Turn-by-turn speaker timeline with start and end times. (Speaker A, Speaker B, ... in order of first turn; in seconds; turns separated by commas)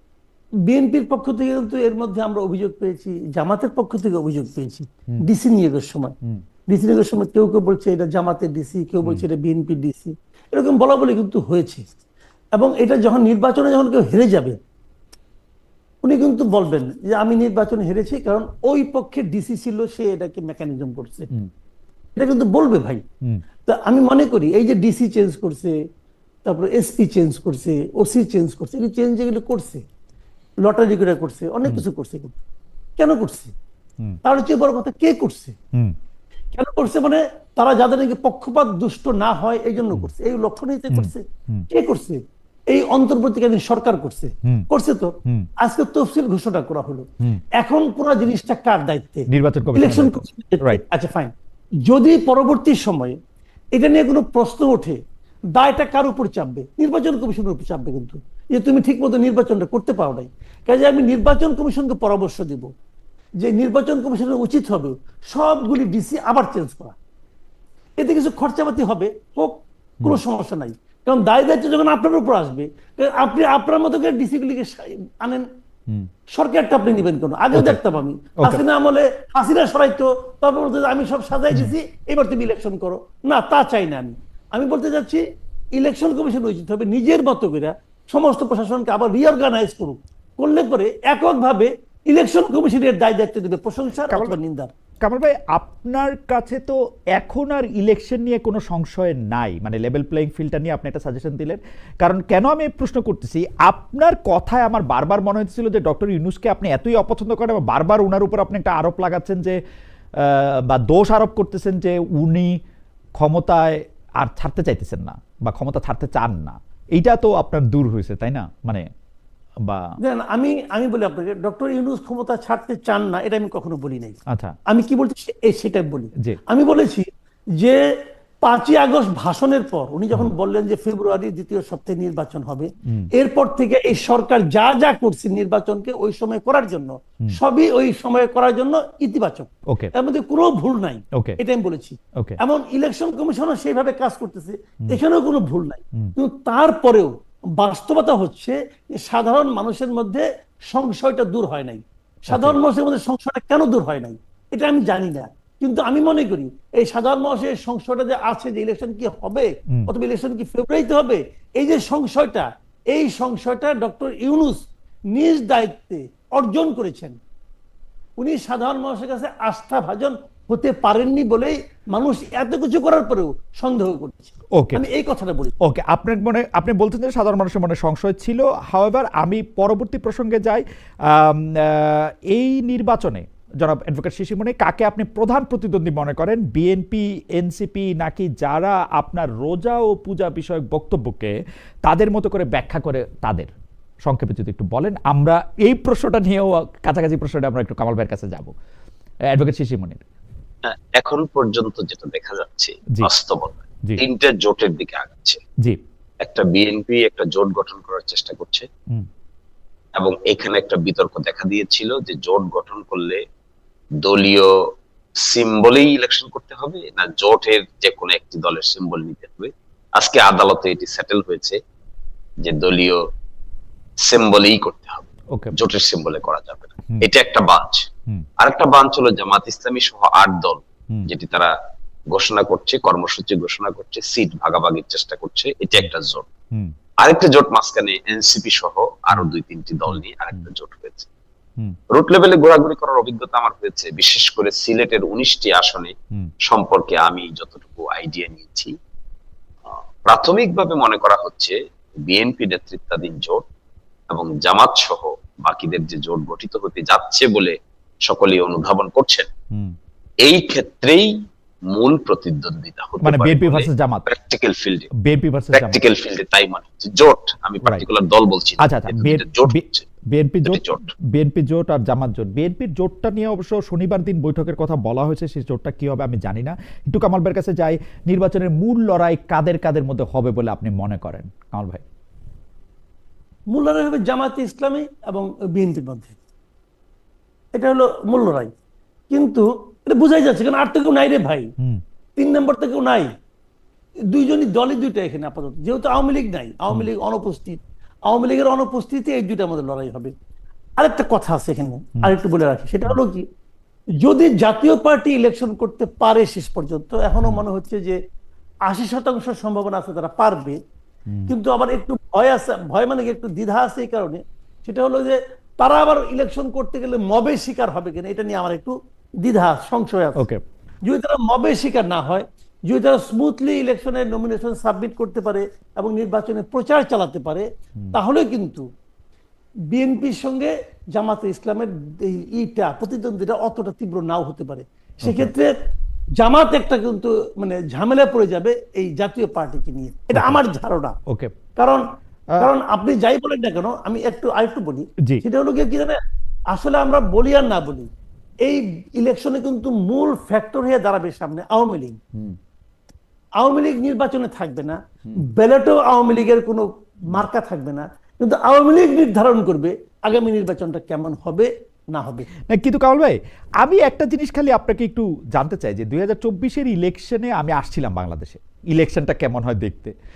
Speaker A: 0.7-6.1, Speaker A: 6.7-11.8, Speaker A: 12.6-14.6, Speaker A: 16.0-21.3, Speaker A: 22.1-23.0, Speaker A: 23.6-25.8, Speaker A: 26.4-29.8, Speaker A: 30.6-32.3, Speaker A: 33.0-33.5, Speaker A: 34.2-35.5, Speaker A: 36.5-47.0, Speaker B: 40.9-41.6, Speaker A: 47.6-51.3, Speaker B: 49.3-50.8, Speaker A: 51.9-53.2, Speaker A: 53.7-55.0, Speaker A: 55.5-62.7, Speaker A: 63.4-67.0, Speaker A: 68.0-75.5, Speaker A: 76.3-85.2, Speaker B: 77.5-77.8, Speaker A: 85.8-94.7, Speaker B: 94.1-94.3, Speaker B: 95.0-109.6, Speaker B: 110.2-112.6, Speaker B: 113.2-118.9, Speaker B: 119.6-119.9, Speaker A: 120.0-127.8, Speaker B: 124.3-124.5, Speaker A: 128.4-167.2, Speaker B: 132.8-133.1, Speaker B: 141.1-141.4, Speaker B: 152.3-152.6, Speaker A: 168.2-175.5, Speaker B: 174.6-174.8, Speaker B: 175.6-191.3, Speaker B: 191.8-193.5, Speaker B: 194.0-198.5, Speaker B: 199.3-200.0, Speaker C: 200.6-205.4, Speaker C: 206.2-208.7, Speaker C: 209.9-213.2, Speaker C: 214.0-214.5, Speaker C: 215.2-221.6, Speaker C: 222.4-223.0, Speaker C: 224.0-231.5, Speaker C: 232.1-236.3, Speaker C: 237.0-241.1, Speaker B: 239.9-240.4, Speaker C: 241.9-245.9, Speaker C: 246.4-248.7, Speaker C: 249.7-253.4, Speaker C: 254.1-259.3, Speaker C: 260.2-264.9, Speaker B: 263.0-264.1, Speaker B: 265.0-265.8, Speaker C: 265.5-269.9, Speaker B: 268.6-281.8, Speaker C: 270.4-270.9, Speaker A: 283.5-286.1, Speaker A: 287.5-288.5, Speaker A: 289.1-291.5, Speaker A: 292.2-293.1, Speaker A: 294.1-300.1, Speaker A: 300.8-303.2, Speaker A: 304.0-308.0, Speaker A: 308.6-310.6, Speaker A: 311.3-320.2, Speaker B: 320.2-320.4, Speaker A: 320.8-328.6, Speaker A: 329.7-335.5, Speaker B: 335.0-335.3, Speaker A: 336.2-340.9, Speaker B: 340.1-340.4, Speaker B: 341.1-341.3, Speaker A: 341.6-341.8, Speaker A: 342.4-346.0, Speaker A: 346.5-347.9, Speaker A: 348.4-352.0, Speaker A: 353.4-362.3, Speaker B: 362.5-369.9